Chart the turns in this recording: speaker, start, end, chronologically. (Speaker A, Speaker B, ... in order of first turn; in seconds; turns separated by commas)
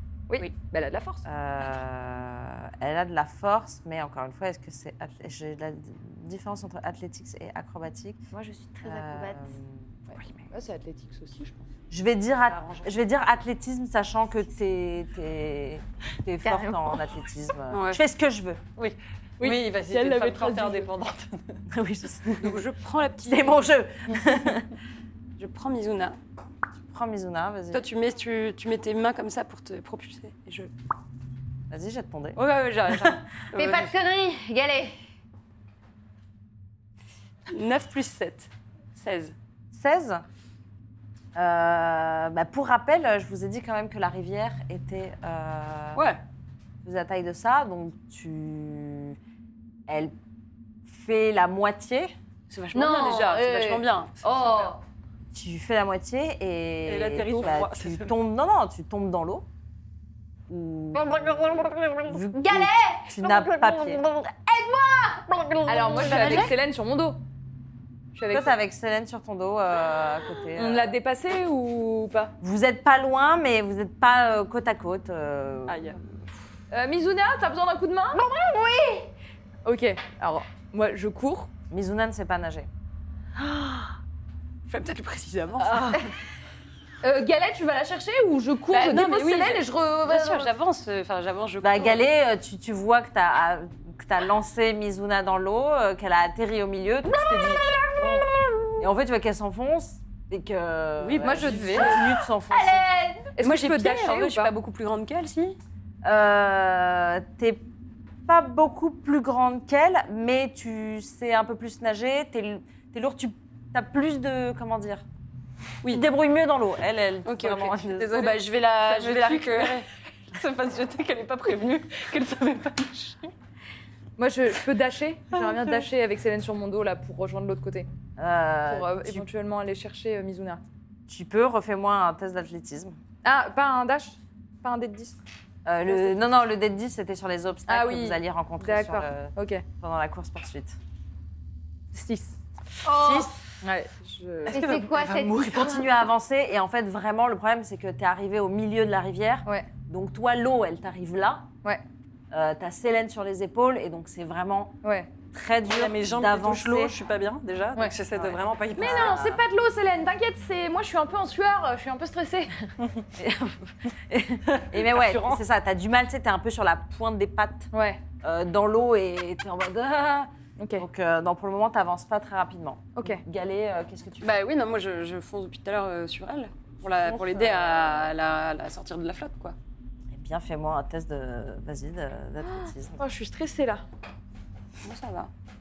Speaker A: 0.3-1.3, Speaker B: 1.2-8.2, Speaker C: 8.3-9.5, Speaker B: 8.8-10.0, Speaker A: 10.1-11.7, Speaker B: 11.9-18.6, Speaker D: 12.4-12.9, Speaker C: 16.4-17.0, Speaker E: 17.7-18.0, Speaker D: 18.8-21.6, Speaker A: 19.4-20.9, Speaker B: 21.7-22.6, Speaker E: 22.4-23.6, Speaker B: 23.2-24.7, Speaker E: 25.4-26.2, Speaker B: 26.9-27.9, Speaker E: 27.7-30.7, Speaker B: 31.7-33.2, Speaker E: 32.4-33.9, Speaker C: 33.5-35.0, Speaker E: 37.5-39.4, Speaker B: 39.7-40.2, Speaker B: 41.4-46.0, Speaker E: 46.0-46.2, Speaker B: 46.8-49.2, Speaker B: 49.9-50.1, Speaker B: 50.9-52.1, Speaker E: 52.5-54.2, Speaker C: 52.7-54.8, Speaker B: 55.3-59.5, Speaker D: 56.9-58.1, Speaker B: 60.5-64.0, Speaker C: 60.9-66.5, Speaker A: 65.7-67.2, Speaker A: 68.2-68.6, Speaker B: 68.3-70.9, Speaker A: 70.5-72.3, Speaker B: 72.4-76.0, Speaker D: 75.7-76.0, Speaker A: 76.7-78.2, Speaker C: 78.1-79.1, Speaker A: 79.7-81.5, Speaker B: 81.7-82.7, Speaker E: 83.5-83.8, Speaker E: 84.7-86.1, Speaker A: 85.7-86.0, Speaker A: 87.0-90.5, Speaker E: 88.7-92.0, Speaker B: 91.6-102.8, Speaker C: 97.4-98.7, Speaker E: 101.0-102.0, Speaker A: 101.2-102.0, Speaker C: 102.7-103.0, Speaker A: 103.3-104.5, Speaker E: 103.4-105.6, Speaker B: 106.0-107.7, Speaker B: 108.3-115.0, Speaker B: 115.9-118.4, Speaker E: 117.2-119.9, Speaker D: 118.8-123.3, Speaker A: 124.2-127.9, Speaker B: 128.2-129.3, Speaker A: 128.7-130.6, Speaker B: 131.1-133.0, Speaker A: 133.2-135.2, Speaker B: 135.7-140.8, Speaker A: 135.9-136.2, Speaker A: 137.7-139.6, Speaker A: 141.9-144.6, Speaker C: 142.8-143.3, Speaker C: 144.5-145.9, Speaker D: 144.6-145.3, Speaker B: 144.7-151.5, Speaker B: 152.3-154.8, Speaker A: 154.8-155.1, Speaker B: 155.3-156.9, Speaker D: 155.7-159.2, Speaker B: 158.1-159.4, Speaker A: 158.8-162.5, Speaker B: 163.2-167.7, Speaker D: 164.5-165.4, Speaker A: 167.7-168.0, Speaker B: 168.2-174.4, Speaker A: 170.6-170.9, Speaker A: 173.0-173.2, Speaker E: 174.2-179.6, Speaker B: 177.0-178.1, Speaker B: 180.1-183.0, Speaker A: 183.0-183.8, Speaker E: 184.8-185.3